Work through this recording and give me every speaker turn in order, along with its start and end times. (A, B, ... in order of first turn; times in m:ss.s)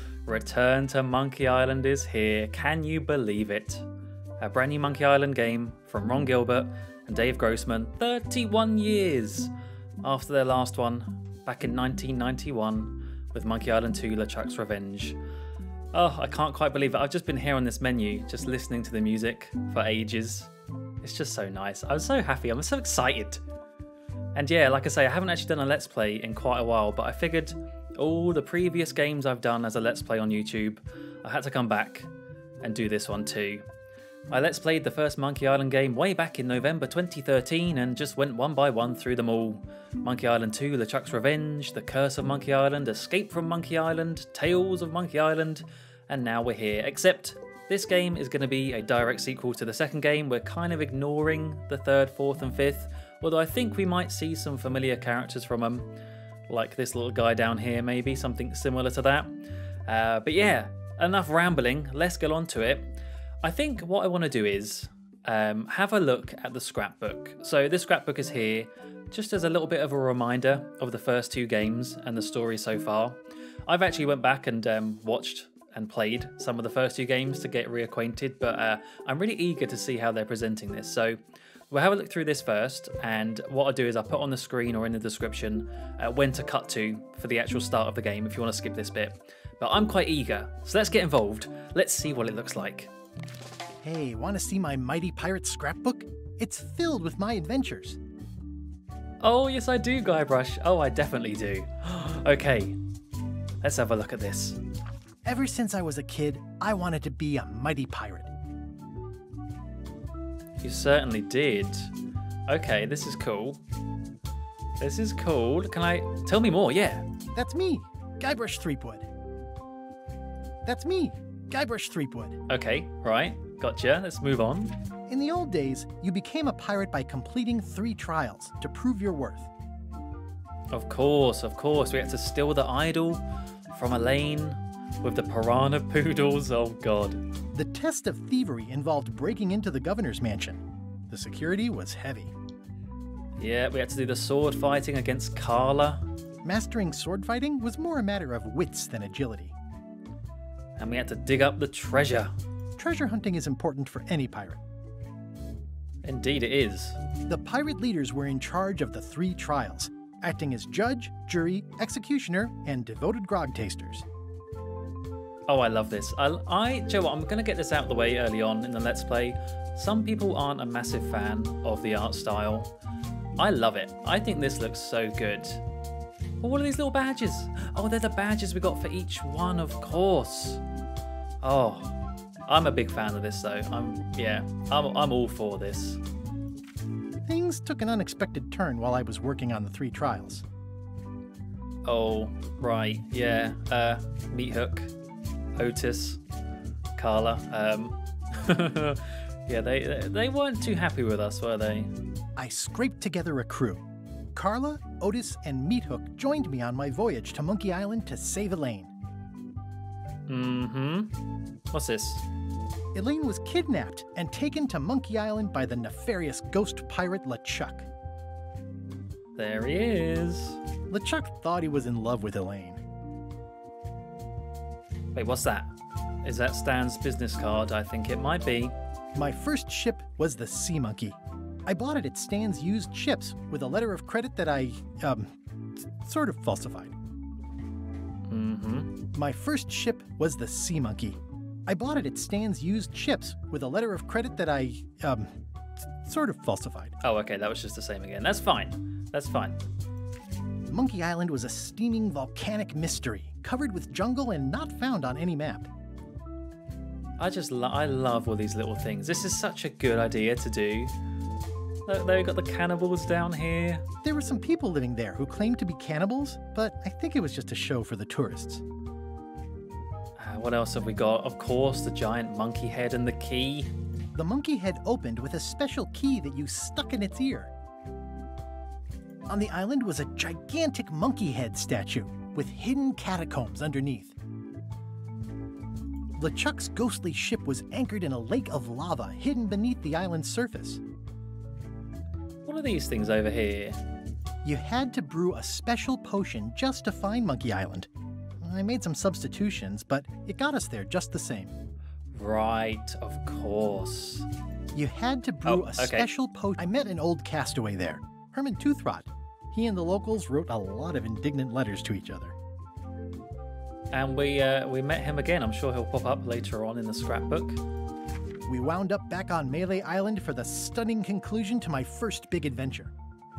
0:00.2-0:03.8 A
0:04.4-0:09.5 A
0:10.0-0:15.2 A
0:15.9-0:20.5 A
0:21.0-0:23.4 A
0:24.3-0:32.1 A
0:32.6-0:33.6 A
0:34.3-0:55.9 A
0:56.5-1:21.2 A
1:21.7-1:32.9 A
1:33.8-1:38.0 B
1:39.2-1:42.8 A
1:43.6-1:44.6 A
1:45.2-1:48.3 B
1:50.6-1:51.9 A
1:52.5-1:53.6 A
1:54.8-1:57.0 A
1:57.3-1:59.1 B
2:00.6-2:02.4 B
2:02.5-2:04.7 A
2:05.1-2:09.5 B
2:10.7-2:17.2 A
2:17.5-2:22.3 B
2:23.4-2:26.0 A
2:26.4-2:29.5 B
2:30.8-2:32.3 A
2:32.8-2:34.6 B
2:36.0-2:37.0 A
2:37.2-2:44.0 B
2:45.5-2:52.7 A
2:53.4-2:55.6 A
2:56.4-3:00.6 A
3:01.4-3:01.9 A
3:02.5-3:06.0 A
3:07.2-3:10.4 B
3:11.8-3:14.9 A
3:15.6-3:16.2 A
3:17.0-3:21.9 A
3:22.4-3:28.9 B
3:30.3-3:31.1 A
3:31.7-3:32.2 A
3:32.9-3:37.9 B
3:39.4-3:40.6 A
3:40.9-3:42.8 B
3:45.1-3:45.7 A
3:46.2-3:48.7 A
3:49.1-3:56.9 B
3:58.3-3:58.9 A
3:59.1-4:06.9 B
4:07.0-4:09.6 A
4:10.7-4:15.7 B
4:17.2-4:20.9 A
4:21.9-4:23.8 A
4:24.0-4:28.6 B
4:30.2-4:33.7 A
4:34.1-4:37.5 B
4:39.3-4:44.1 B
4:46.2-4:50.8 B
4:52.4-4:53.8 A
4:54.4-4:57.9 B
4:58.4-5:01.5 B
5:02.1-5:04.2 A
5:04.7-5:12.3 B
5:05.4-5:06.1 A
5:13.9-5:17.6 A
5:18.4-5:22.9 B